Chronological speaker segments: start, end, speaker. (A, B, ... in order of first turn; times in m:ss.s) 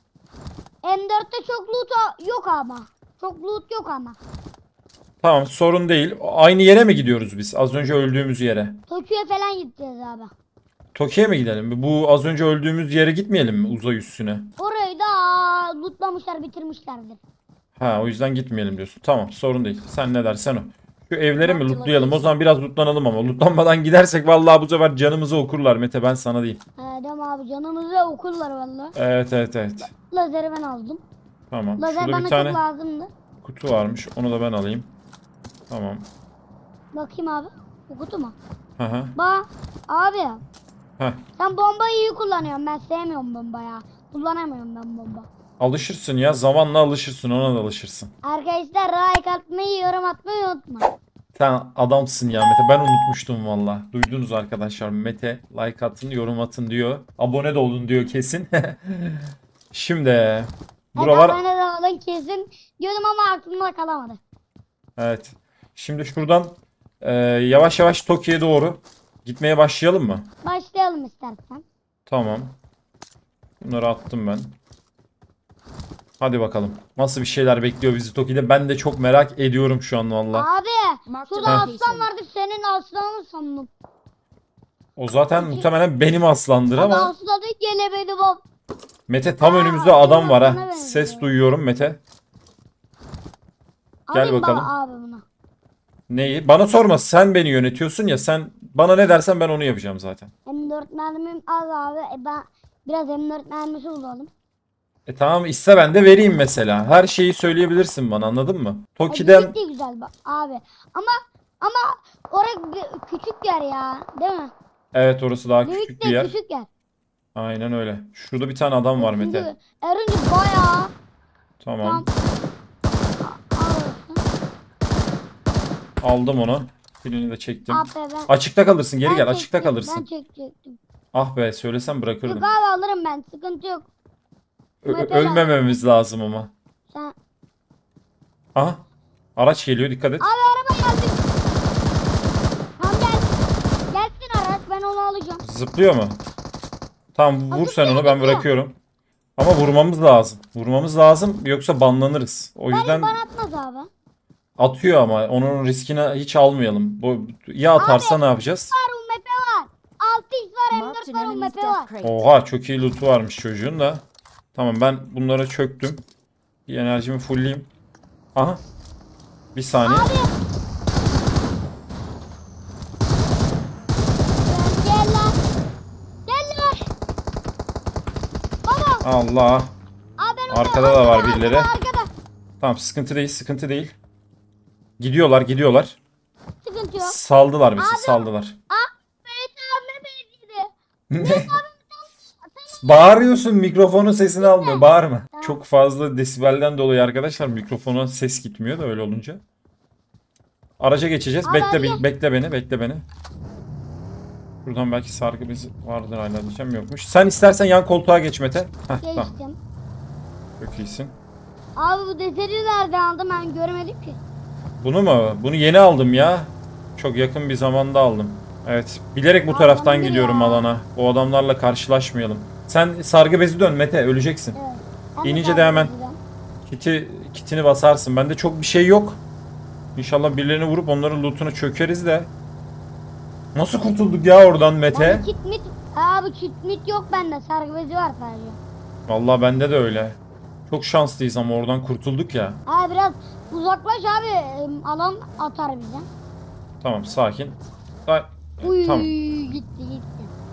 0:00.8-0:04.2 A
0:05.2-0:08.8 B
0:08.9-0:10.3 A
0:11.0-0:14.5 B
0:14.6-0:17.2 A
0:17.8-0:26.6 B
0:21.4-0:22.3 C
0:26.8-0:29.0 A
0:29.0-0:29.9 B
0:29.9-0:31.0 A
0:31.5-0:32.6 B
0:31.8-0:33.1 A
0:33.4-0:34.9 B
0:35.7-0:36.1 B
0:36.9-0:38.4 A
0:38.8-0:39.2 B
0:39.2-0:40.4 A
0:41.4-0:45.3 A
0:45.6-0:48.1 B
0:48.2-0:50.9 A
0:51.4-1:01.4 B
1:01.0-1:04.2 A
1:05.0-1:10.3 B
1:10.4-1:11.6 A
1:12.1-1:12.6 B
1:13.6-1:14.6 B
1:16.2-1:20.5 B
1:20.3-1:23.7 A
1:21.1-1:22.1 C
1:21.4-1:21.7 B
1:25.0-1:27.1 B
1:25.3-1:25.7 A
1:26.8-1:28.4 A
1:29.1-1:32.0 B
1:29.4-1:31.3 A
1:34.1-1:35.2 A
1:34.1-1:34.7 B
1:36.1-1:40.3 B
1:40.5-1:44.3 A
1:45.1-1:49.6 B
1:49.1-1:54.5 A
1:54.9-1:56.3 B
1:55.6-1:56.7 A
1:57.4-1:59.5 B
1:59.0-2:00.9 A
2:01.6-2:02.1 B
2:01.8-2:02.1 A
2:03.2-2:04.2 A
2:06.0-2:10.0 B
2:07.7-2:08.3 A
2:09.0-2:10.8 A
2:11.1-2:12.5 B
2:12.3-2:13.9 A
2:14.8-2:16.5 B
2:14.9-2:15.8 A
2:18.6-2:18.8 B
2:19.4-2:20.3 B
2:20.2-2:21.2 A
2:22.8-2:23.4 A
2:23.9-2:25.4 A
2:25.4-2:26.2 B
2:27.2-2:28.8 B
2:27.5-2:28.5 A
2:29.4-2:33.2 B
2:32.7-2:33.9 A
2:34.6-2:38.7 B
2:37.8-2:41.9 A
2:40.7-2:42.2 C
2:42.0-2:44.0 B
2:44.6-2:46.0 B
2:46.7-2:47.7 B
2:48.4-2:48.6 B
2:49.5-2:50.1 B
2:49.8-2:50.3 A
2:54.5-2:55.4 A
2:56.3-2:56.9 A
2:58.6-2:59.1 A
2:59.0-2:59.8 B
3:00.2-3:02.1 A
3:00.5-3:01.7 B
3:02.6-3:03.9 B
3:05.0-3:06.0 B
3:06.6-3:07.2 A
3:07.0-3:08.6 B
3:07.8-3:13.2 A
3:11.1-3:11.6 B
3:12.8-3:19.4 B
3:14.4-3:15.6 A
3:20.8-3:23.0 B
3:21.4-3:22.0 A
3:24.6-3:29.3 B
3:29.0-3:29.6 A
3:30.6-3:31.2 B
3:31.8-3:34.2 A
3:34.8-3:44.6 B
3:39.5-3:40.7 A
3:44.6-3:46.2 A
3:45.2-3:45.9 B
3:46.6-3:49.2 B
3:50.0-3:52.3 B
3:53.6-3:55.3 B
3:54.9-3:58.6 A
3:59.1-4:02.6 B
4:02.7-4:06.1 A
4:06.8-4:09.2 B
4:08.6-4:10.3 A